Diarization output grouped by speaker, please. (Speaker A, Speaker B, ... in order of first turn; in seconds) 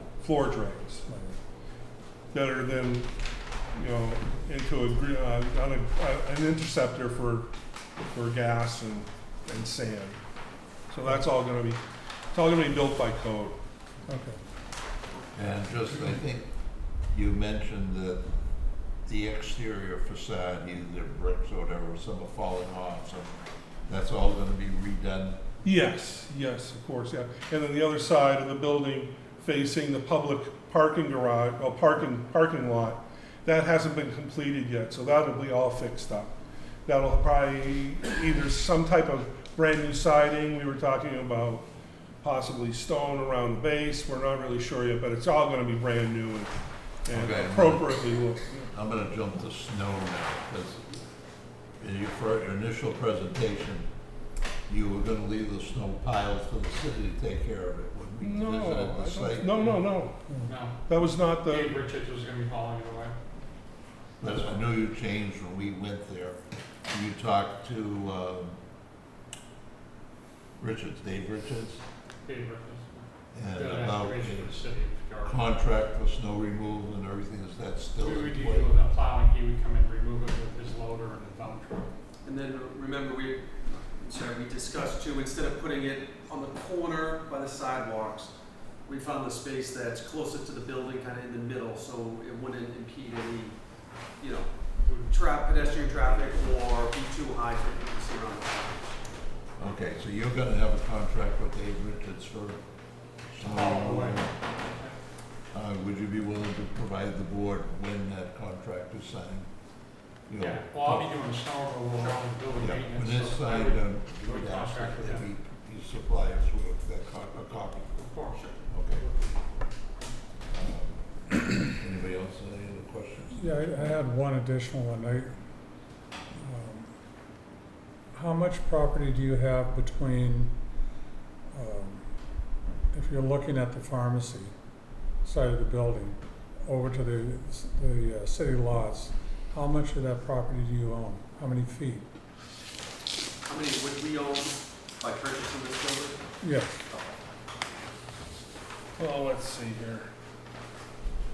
Speaker A: 0.2-1.1, 2.3-3.1, 3.7-7.5, 8.1-10.2, 10.9-11.8, 12.3-13.6, 25.6-36.3, 36.9-41.6, 42.2-48.6, 58.2-60.2, 60.9-61.8, 149.0-150.1
Speaker B: 1.1-1.4, 14.1-14.4, 60.3-60.5, 123.3-125.3, 126.4-126.9, 128.1-130.5, 131.5-132.0, 132.9-134.5, 135.2-142.1, 146.4-146.8
Speaker C: 15.3-16.5, 17.1-18.3, 19.1-23.3, 23.9-25.4, 47.1-48.0, 48.7-50.9, 51.8-53.9, 54.7-59.7, 64.2-68.6, 70.6-71.8, 73.3-78.8, 99.6-102.6, 103.3-104.3, 105.5-109.5, 110.3-111.2, 112.5-118.1, 118.7-119.1, 120.5-124.0
Speaker D: 60.5-63.1, 72.2-75.5, 78.0-81.9, 95.6-96.3, 103.4-105.0, 110.4-115.3, 118.0-118.6
Speaker E: 82.2-93.6, 94.2-99.0, 143.4-146.2